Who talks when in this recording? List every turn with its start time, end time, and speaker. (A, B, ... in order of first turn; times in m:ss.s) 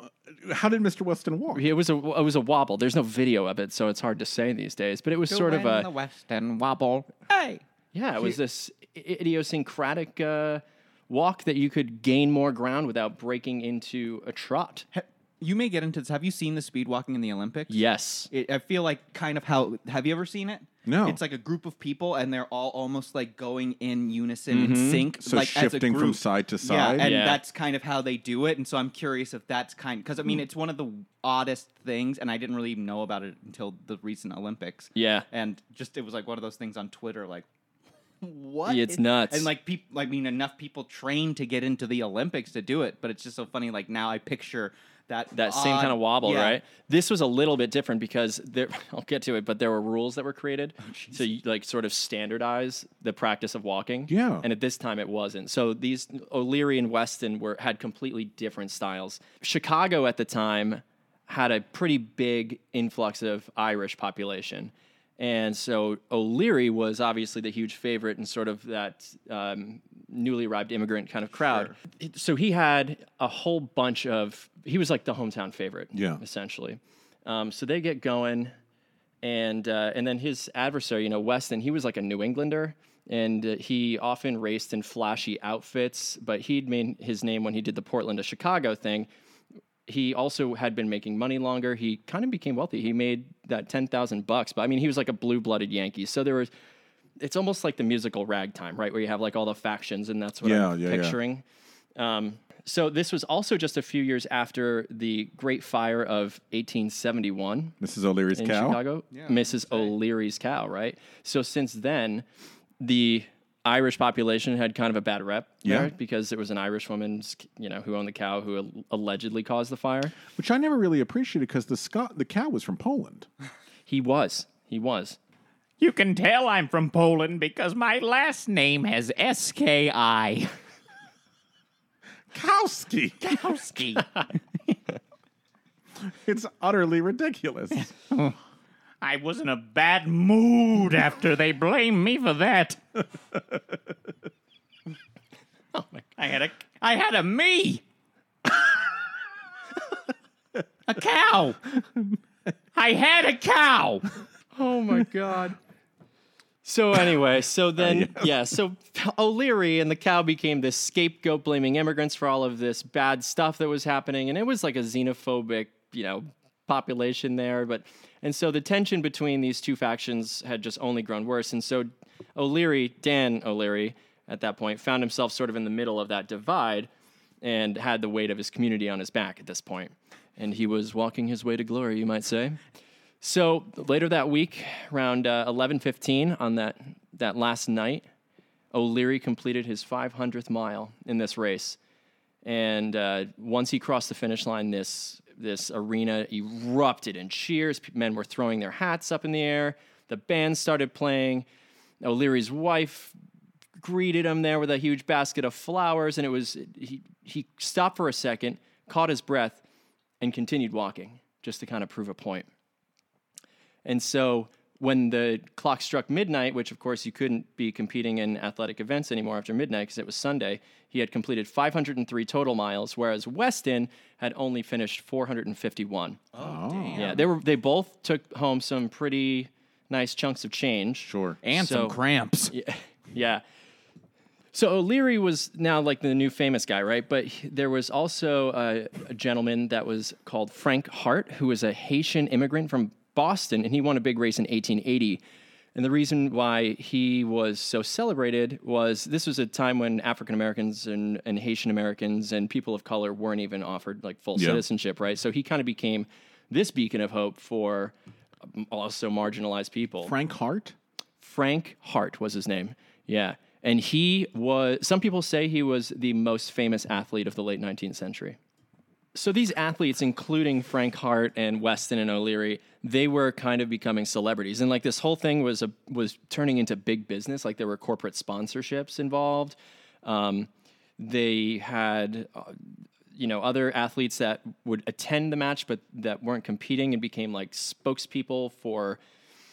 0:00.3-0:01.6 A
0:01.5-0:05.9 B
0:05.3-0:07.6 C
0:07.9-0:14.8 B
0:14.9-0:17.8 C
0:17.7-0:18.3 B
0:18.3-0:37.4 C
0:20.8-0:21.2 A
0:24.5-0:27.1 A
0:27.0-0:27.4 B
0:35.0-0:35.3 B
0:38.2-0:46.6 C
0:38.6-0:39.5 B
0:45.4-1:18.5 B
0:50.8-0:51.2 C
0:54.1-0:54.4 A
1:15.9-1:16.2 A
1:19.2-1:29.1 B
1:29.9-1:36.5 B
1:37.2-1:41.4 B
1:40.4-1:41.2 A
1:42.0-1:47.8 B
1:47.8-1:48.8 A
1:48.3-1:52.2 B
1:49.1-1:49.9 C
1:52.8-2:00.2 B
1:55.6-1:55.9 A
2:00.3-2:03.3 A
2:03.9-2:05.2 B
2:05.8-2:10.5 D
2:12.3-2:13.4 A
2:13.2-2:14.2 D
2:16.0-2:17.9 A
2:19.0-2:22.8 D
2:25.7-2:26.0 B
2:26.2-2:27.8 D
2:30.9-2:31.5 D
2:32.7-2:34.1 D
2:34.5-2:35.6 B
2:36.6-2:56.9 B
2:37.8-2:38.3 A
2:57.4-3:02.6 B
3:03.2-3:08.0 B
3:08.7-3:11.8 B
3:12.4-3:21.4 B
3:22.0-3:23.1 B
3:23.8-3:29.6 B
3:30.2-3:32.5 B
3:33.8-3:46.2 B
3:46.3-3:47.2 C
3:46.4-3:47.2 A
3:47.0-3:52.0 B
3:51.0-3:51.4 A
3:51.4-3:52.5 C
3:52.5-3:53.4 B
3:54.5-4:05.2 B
4:05.7-4:17.9 B
4:14.4-4:14.6 A
4:18.4-4:20.1 B
4:20.0-4:20.7 A
4:21.2-4:28.4 B
4:29.1-4:42.6 B
4:43.1-4:49.0 B